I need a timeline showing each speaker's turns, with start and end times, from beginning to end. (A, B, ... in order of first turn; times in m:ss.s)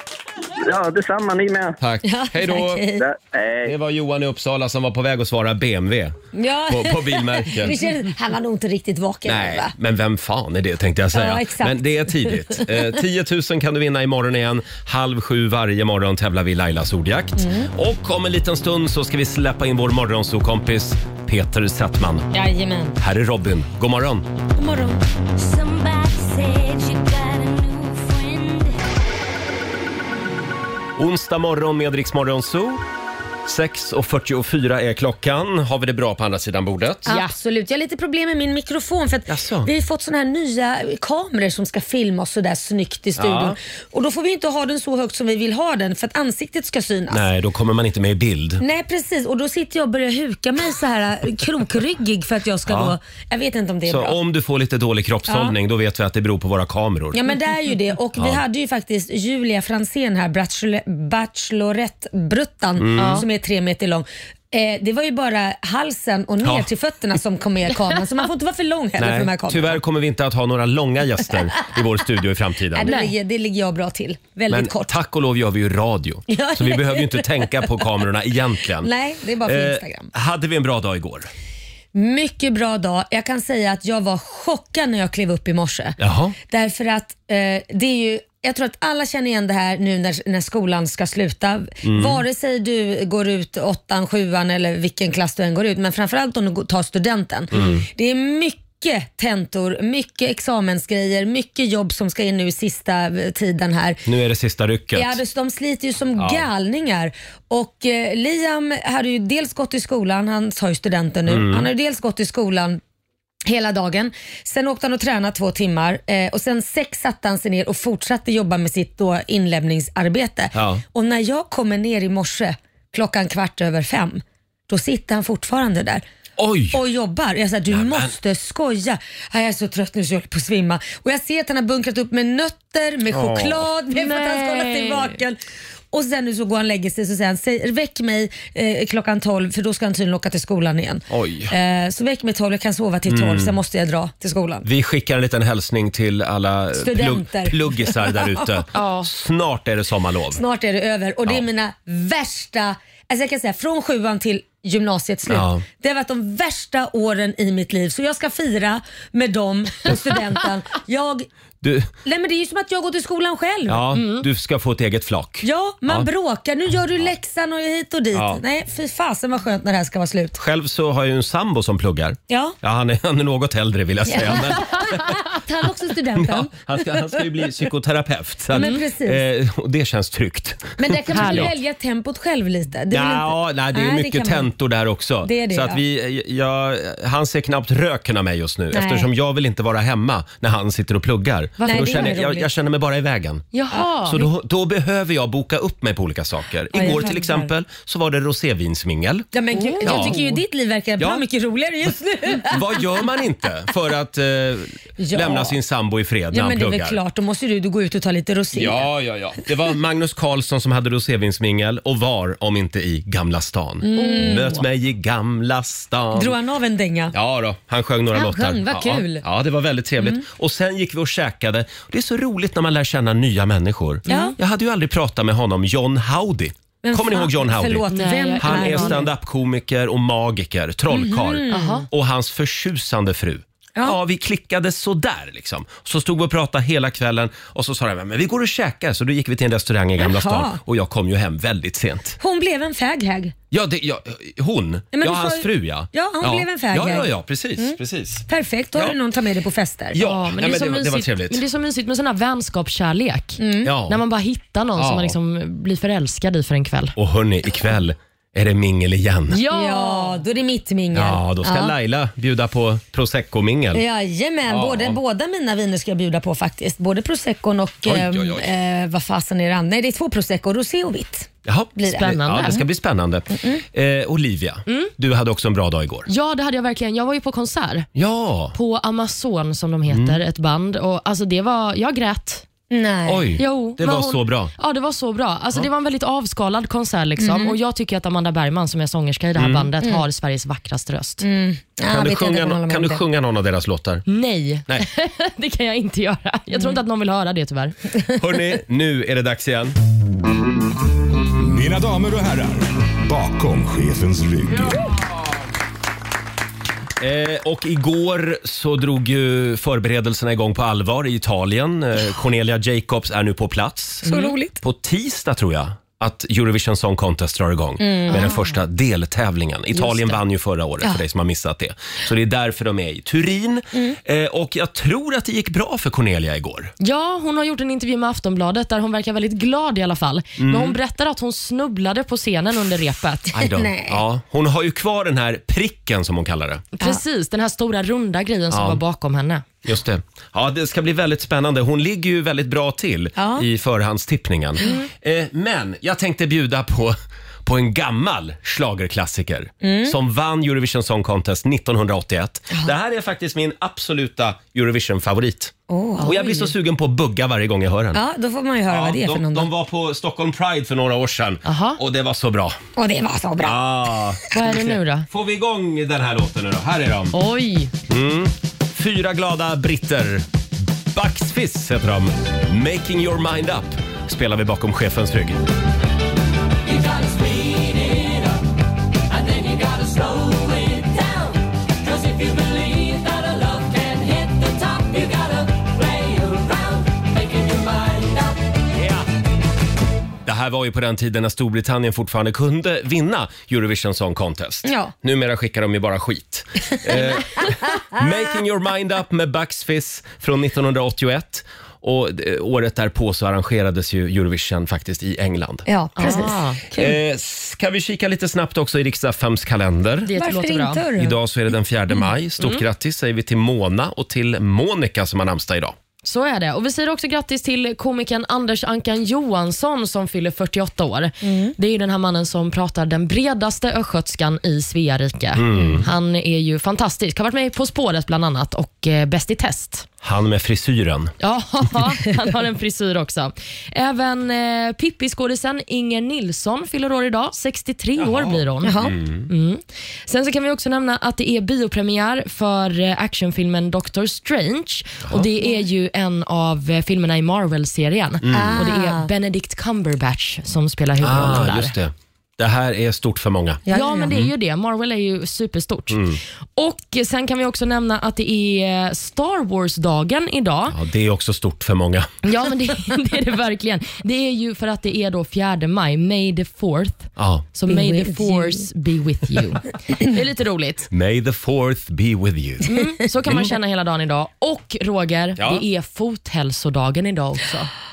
0:00.6-0:01.8 A
0:01.8-0:02.8 B
0:02.0-0:03.0 C
0:03.0-0:03.7 A
0:03.6-0:06.2 B
0:06.3-0:09.7 C
0:06.7-0:07.8 B
0:09.2-0:22.3 B
0:11.1-0:12.8 C
0:17.4-0:17.7 C
0:22.3-0:23.0 C
0:23.0-0:24.3 B
0:24.5-0:25.0 C
0:25.5-0:26.4 D
0:26.9-0:28.4 D
0:31.0-0:32.8 B
0:33.4-0:37.1 B
0:37.0-0:37.3 D
0:37.0-0:47.2 C
0:39.3-0:39.7 B
0:43.2-0:43.6 B
0:47.1-0:48.6 B
0:48.6-0:54.2 C
0:52.7-0:52.9 B
0:53.8-0:57.2 B
0:55.3-0:55.5 C
0:57.1-1:09.8 C
1:02.8-1:03.2 B
1:03.0-1:03.2 D
1:09.0-1:12.9 B
1:12.7-1:14.9 C
1:12.8-1:13.1 D
1:14.5-1:18.9 B
1:16.3-1:17.8 C
1:18.8-1:20.1 C
1:19.4-1:21.3 B
1:21.9-1:44.0 C
1:26.0-1:26.4 B
1:31.8-1:32.2 B
1:37.5-1:37.8 B
1:44.0-1:45.2 B
1:44.9-1:52.8 C
1:46.2-1:46.4 B
1:51.3-1:51.7 B
1:53.4-2:06.0 C
2:00.5-2:00.8 B
2:06.4-2:06.8 B
2:06.7-2:15.4 C
2:07.7-2:08.1 B
2:13.1-2:13.7 B
2:13.9-2:15.2 D
2:15.9-2:24.6 C
2:21.1-2:21.5 B
2:23.1-2:23.6 B
2:24.6-2:30.4 B
2:26.8-2:28.2 C
2:28.7-2:29.1 D
2:30.3-2:41.3 C
2:35.3-2:35.6 B
2:41.6-2:41.9 B
2:42.0-2:43.8 C
2:43.7-2:46.1 B
2:43.9-2:44.3 D
2:45.4-2:50.4 C
2:48.1-2:48.4 B
2:50.4-2:55.4 B
2:52.3-2:52.6 C
2:54.1-2:57.2 C
2:56.1-3:01.5 B
2:58.5-2:59.2 C
2:58.6-2:58.8 D
3:00.8-3:04.5 C
3:01.1-3:01.5 D
3:02.9-3:19.3 B
3:05.2-3:05.8 C
3:08.7-3:09.1 C
3:11.6-3:12.1 D
3:11.6-3:12.5 C
3:13.5-3:14.2 D
3:16.7-3:17.5 C
3:19.3-3:22.6 C
3:19.5-3:20.4 D
3:19.8-3:20.2 B
3:22.4-3:27.0 B
3:25.0-3:25.6 C
3:26.3-3:28.9 C
3:28.5-3:36.4 B
3:33.8-3:34.6 C
3:33.9-3:34.6 D
3:36.2-3:37.1 C
3:37.1-3:47.9 B
3:38.1-3:39.2 C
3:44.0-3:44.3 D
3:44.1-3:44.3 C
3:46.8-3:49.0 C
3:47.9-3:49.1 D
3:48.4-4:02.2 B
3:50.9-3:51.8 C
3:51.5-3:51.9 D
4:00.0-4:00.6 C
4:02.2-4:03.3 C
4:03.5-4:08.9 B
4:04.9-4:07.8 C
4:08.3-4:10.0 C
4:09.9-4:11.4 B
4:10.0-4:16.9 D
4:13.4-4:13.7 C
4:13.6-4:14.0 B
4:14.8-4:15.1 B
4:17.0-4:19.4 B
4:19.3-4:20.2 D
4:19.5-4:21.7 C
4:20.9-4:23.8 B
4:23.7-4:32.1 C
4:24.5-4:25.0 B
4:27.8-4:28.5 B
4:31.4-4:36.1 B
4:31.9-4:32.6 D
4:33.3-4:33.6 C
4:34.7-4:34.9 D
4:36.0-4:37.9 D
4:38.0-4:38.5 B
4:38.5-4:42.4 D
4:39.9-4:40.2 B
4:42.7-4:43.3 C
4:43.0-4:44.5 B
4:43.4-4:51.2 D
4:47.2-4:47.5 C
4:49.4-4:49.7 B
4:51.2-4:53.0 C
4:51.9-4:54.0 B
4:54.1-4:57.8 D
4:58.1-4:59.8 B
5:01.4-5:04.8 E
5:07.0-5:26.7 B
5:14.0-5:14.6 C
5:14.1-5:14.3 D
5:17.8-5:18.3 C
5:18.1-5:18.6 D
5:19.7-5:20.2 D
5:26.8-5:33.3 D
5:30.4-5:30.8 B
5:33.3-5:36.7 B
5:33.4-5:34.0 C
5:36.8-5:39.4 D
5:38.5-5:38.8 B
5:39.6-5:58.0 B
5:43.2-5:43.4 C
5:49.6-5:49.9 C
5:55.7-5:56.5 C
5:57.9-5:59.5 C
5:58.7-6:02.6 B
6:01.4-6:01.8 D
6:02.8-6:03.6 C
6:03.4-6:07.2 B
6:04.3-6:05.1 D
6:07.1-6:07.7 D
6:07.9-6:10.2 B
6:10.9-6:15.4 B
6:28.7-6:29.0 B
6:30.2-6:46.2 B
6:34.6-6:34.9 C
6:45.6-6:47.0 C
6:46.0-6:46.6 D
6:46.8-6:50.1 B
6:50.0-6:50.9 D
6:50.1-6:51.1 C
6:51.0-6:55.7 B
6:52.4-6:52.6 D
6:56.0-7:09.8 D
7:01.2-7:01.5 C
7:05.4-7:05.9 B
7:10.0-7:11.1 B
7:11.2-7:31.7 D
7:18.0-7:19.3 B
7:18.6-7:18.9 C
7:28.2-7:28.6 B
7:28.3-7:29.1 C
7:31.0-7:34.3 B
7:33.7-7:34.1 C
7:33.7-7:40.8 D
7:35.9-7:36.2 B
7:40.7-7:42.1 B
7:42.2-7:50.9 D
7:47.2-7:47.5 B
7:47.7-7:48.6 C
7:50.9-7:52.7 B
7:52.6-7:57.7 D
7:53.2-7:53.5 B
7:55.4-7:55.6 B